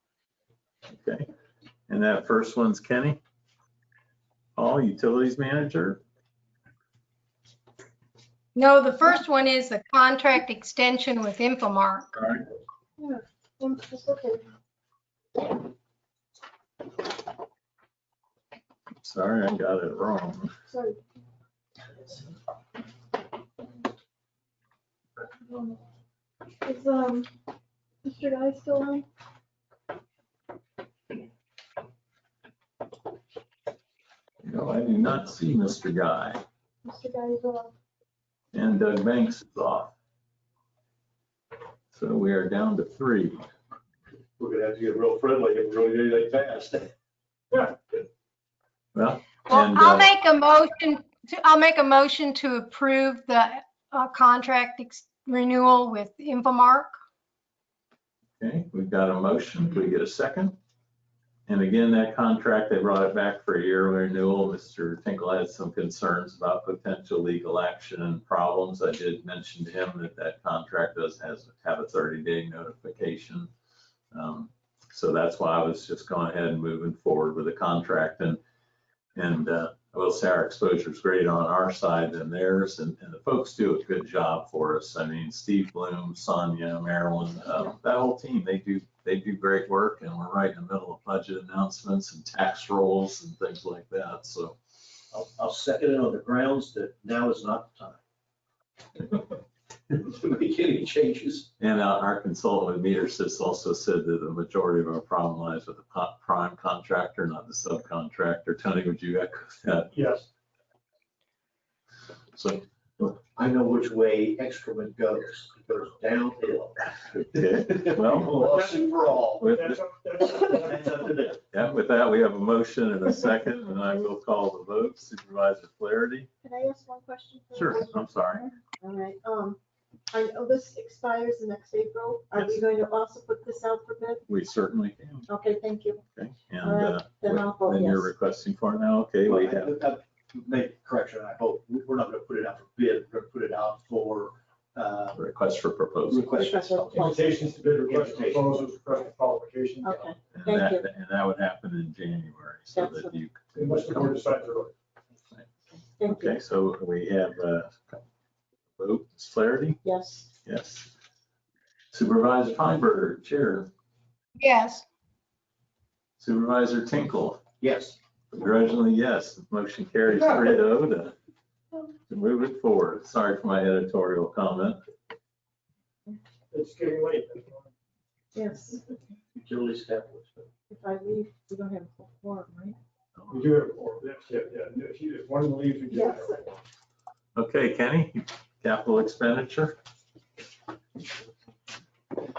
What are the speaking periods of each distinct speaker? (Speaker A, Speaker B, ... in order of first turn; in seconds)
Speaker A: 0.9-1.3, 1.9-3.2, 4.5-6.0, 12.1-12.4, 19.0-20.5, 34.4-36.4, 38.5-39.9, 41.9-43.4, 48.9-50.1, 58.4-60.6, 61.5-73.5, 74.1-78.4, 79.1-94.6, 101.6-109.9, 112.3-112.6, 117.2-118.3, 121.5-126.3, 127.5-128.5, 132.3-132.6, 134.3-135.3, 136.2-139.7, 145.2-146.3, 150.3-154.1, 156.1-158.0, 158.8-159.8, 160.4-160.9, 161.9-163.7, 166.2-167.4, 168.3-171.2, 172.1-174.8, 187.3-189.8
Speaker B: 8.5-12.1, 49.5-56.9, 164.4-164.8
Speaker C: 13.0-14.4, 20.7-21.0, 25.2-25.8, 26.6-27.3, 28.0-29.1, 36.9-37.7, 126.4-129.6, 130.1-134.2, 135.3-136.0, 136.6-138.1, 146.3-147.3, 149.8-150.8, 152.7-153.1, 155.8-156.4, 159.8-160.3, 178.3-178.8, 180.7-182.8, 185.9-186.3
Speaker D: 44.4-46.9, 95.1-98.0, 99.9-101.5, 113.0-121.5, 139.2-145.3, 146.1-147.1, 147.8-148.7, 167.6-168.0, 179.3-180.5
Speaker E: 109.9-110.3, 118.3-121.0, 146.9-150.1, 153.5-154.7, 176.5-177.7, 183.3-186.4